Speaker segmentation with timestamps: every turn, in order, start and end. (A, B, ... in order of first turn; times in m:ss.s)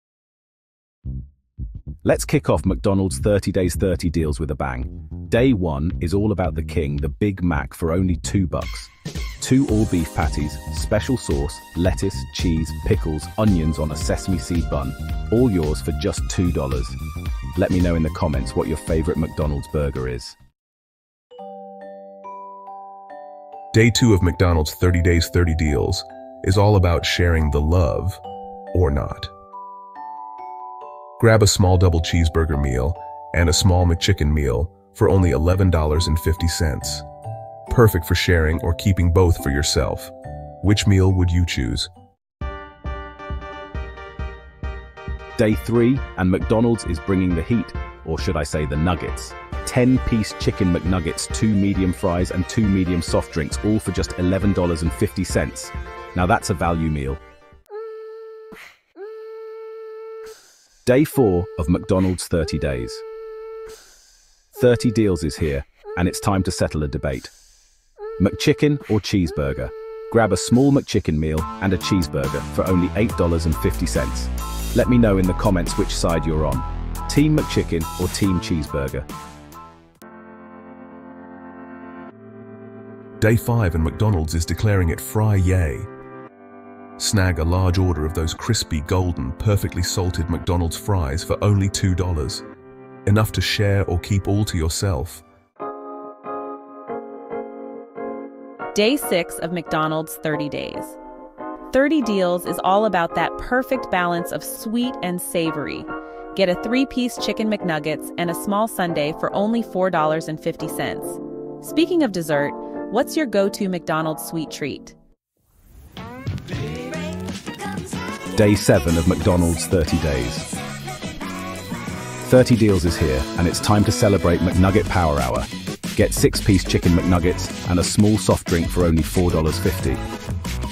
0:02.0-0:08.9 A
0:09.4-0:17.0 A
0:17.6-0:20.4 A
0:23.7-0:28.2 B
0:28.7-0:29.3 B
0:31.2-0:37.0 B
0:37.7-0:41.9 B
0:45.4-0:57.2 A
1:00.8-1:03.0 A
1:04.5-1:07.3 A
1:08.2-1:19.1 A
1:23.2-1:25.9 B
1:27.0-1:32.4 B
1:33.1-1:35.2 B
1:38.7-1:41.0 C
1:41.7-1:55.0 C
1:58.3-2:00.5 A
2:02.2-2:10.0 A